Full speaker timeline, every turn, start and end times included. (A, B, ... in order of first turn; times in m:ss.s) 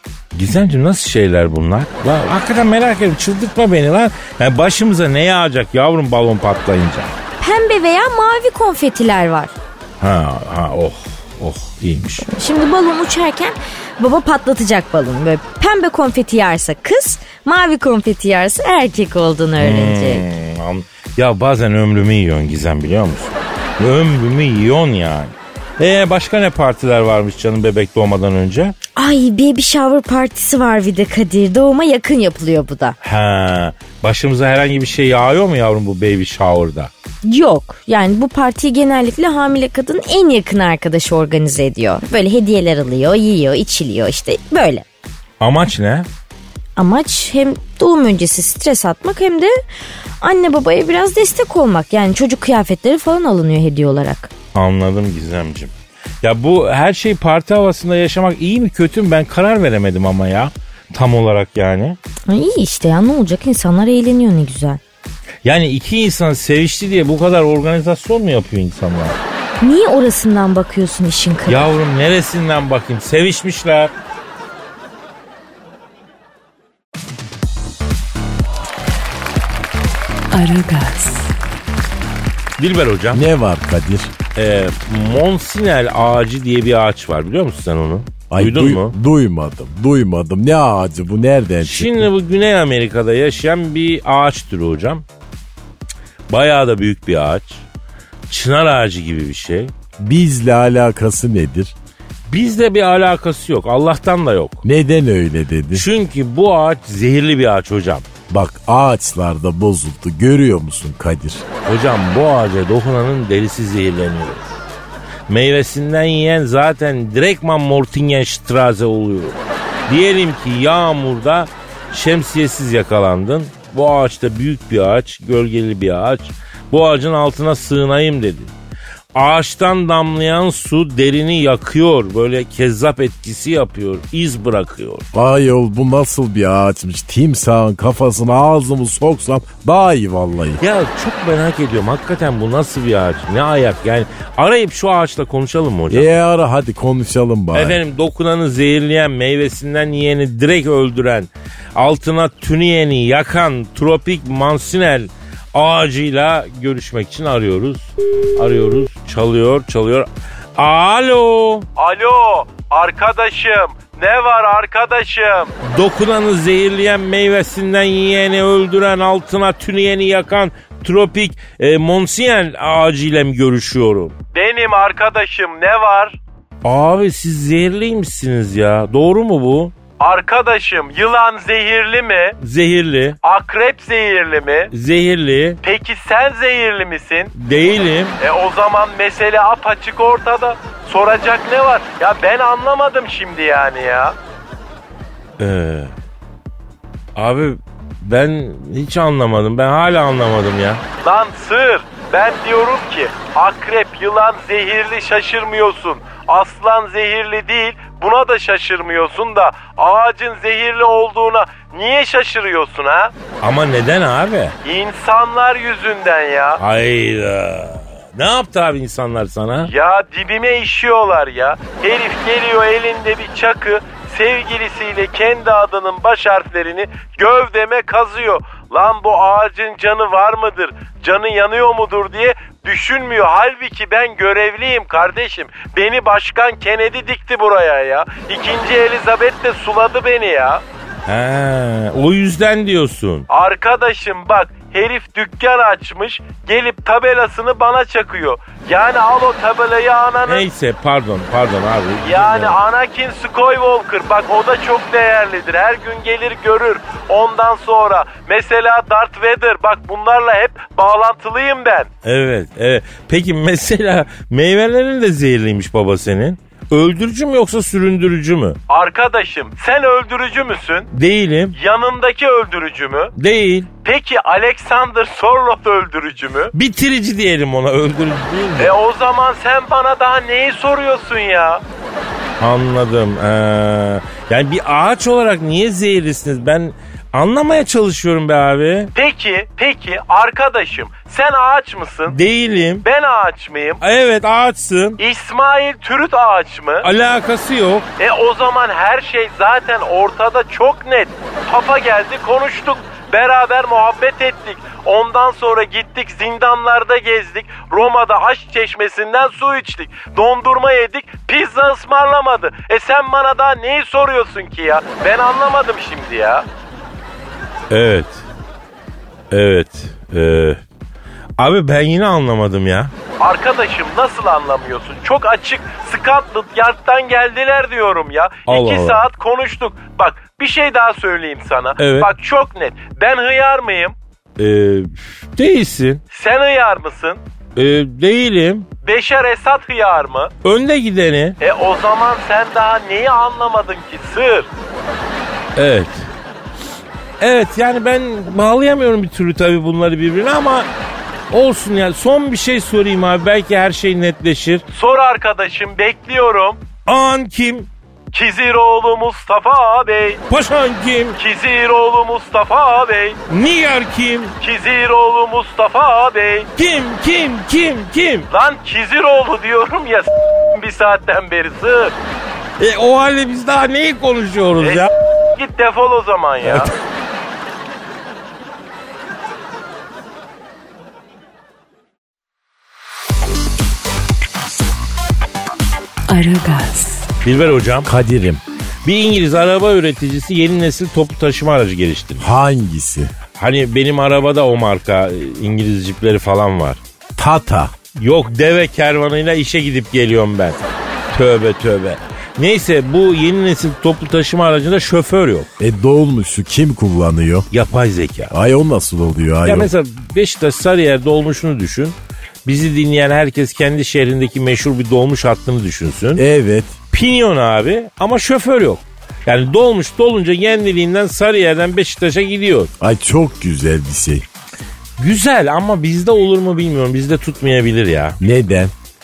0:00.3-0:07.2 A
0:07.4-0:09.5 B
0:10.0-0:12.3 A
0:12.3-0:20.2 B
0:19.6-0:28.8 A
0:29.0-0:33.0 B
0:33.0-0:36.9 A
0:37.2-0:44.9 B
0:45.4-0:46.1 A
0:46.8-0:49.6 B
0:50.2-0:54.3 B
0:54.5-1:02.0 A
1:02.3-1:04.8 B
1:05.4-1:09.2 A
1:09.6-1:11.7 B
1:11.5-1:13.9 A
1:20.3-1:21.3 C
1:22.6-1:23.2 A
1:23.1-1:24.1 D
1:24.4-1:28.9 A
1:28.3-1:32.1 D
1:31.6-1:35.0 A
1:36.3-1:37.6 A
1:38.3-1:39.7 A
1:40.0-1:41.7 D
1:42.3-1:44.6 A
1:44.6-1:45.9 D
1:45.7-1:48.0 A
1:48.3-1:51.4 D
1:51.6-1:54.6 A
1:55.3-1:59.4 A
1:59.9-2:08.5 A
2:09.1-2:15.0 A
2:15.1-2:20.6 D
2:20.6-2:26.1 A
2:25.9-2:27.8 D
2:27.5-2:41.7 A
2:41.8-2:45.5 E
2:45.6-2:54.1 A
2:54.3-2:56.2 E
2:56.6-2:59.7 A
3:00.0-3:02.4 E
3:02.4-3:03.2 A
3:03.2-3:04.7 E
3:04.7-3:05.6 A
3:05.6-3:07.3 E
3:07.3-3:08.2 A
3:08.2-3:14.2 E
3:15.4-3:15.9 A
3:17.2-3:20.8 A
3:21.0-3:33.1 E
3:33.4-3:34.6 A
3:34.6-3:36.6 E
3:36.6-3:39.7 A
3:39.6-4:00.6 E
4:01.1-4:03.3 A
4:03.3-4:10.5 E
4:10.3-4:12.6 A
4:12.0-4:21.9 E
4:22.0-4:28.6 A
4:28.7-4:30.9 E
4:30.9-4:31.6 A
4:31.6-4:33.1 E
4:33.2-4:33.7 A
4:33.8-4:36.5 E
4:36.5-4:38.8 A
4:38.6-4:41.6 E
4:42.4-4:48.9 A
4:49.0-4:52.2 E
4:52.1-4:52.8 A
4:52.8-4:53.8 E
4:53.8-4:55.0 A
4:55.0-4:56.9 E
4:56.8-4:57.9 A
4:58.0-5:16.5 E
5:17.7-5:18.3 A
5:19.3-5:20.6 A
5:21.4-5:22.9 A
5:23.2-5:34.0 E
5:28.5-5:29.1 A
5:31.8-5:32.1 A
5:34.4-5:36.0 A
5:36.1-5:37.2 E
5:37.6-5:38.7 A
5:38.8-5:40.3 E
5:40.4-5:41.4 A
5:41.4-5:44.5 E
5:45.6-5:46.1 A
5:47.2-5:50.7 A
5:51.3-5:54.6 A
5:54.7-5:56.6 E
5:56.9-5:57.7 A
5:58.1-6:00.2 E
6:00.3-6:01.2 A
6:01.2-6:03.2 E
6:03.3-6:04.4 A
6:04.4-6:06.5 E
6:06.6-6:08.3 A
6:08.3-6:11.9 E
6:12.6-6:14.9 A
6:14.6-6:16.7 E
6:26.1-6:27.1 C
6:27.2-6:27.9 A
6:27.8-6:28.4 D
6:28.8-6:32.3 A
6:32.2-6:33.1 D
6:33.4-6:36.8 A
6:37.2-6:37.8 D
6:38.0-6:45.5 A
6:45.6-6:47.5 D
6:47.5-6:48.3 A
6:48.3-6:49.7 D
6:49.4-6:56.2 A
6:56.2-6:56.8 D
6:56.9-7:02.7 A
7:02.8-7:04.3 D
7:05.0-7:08.2 A
7:08.2-7:08.7 D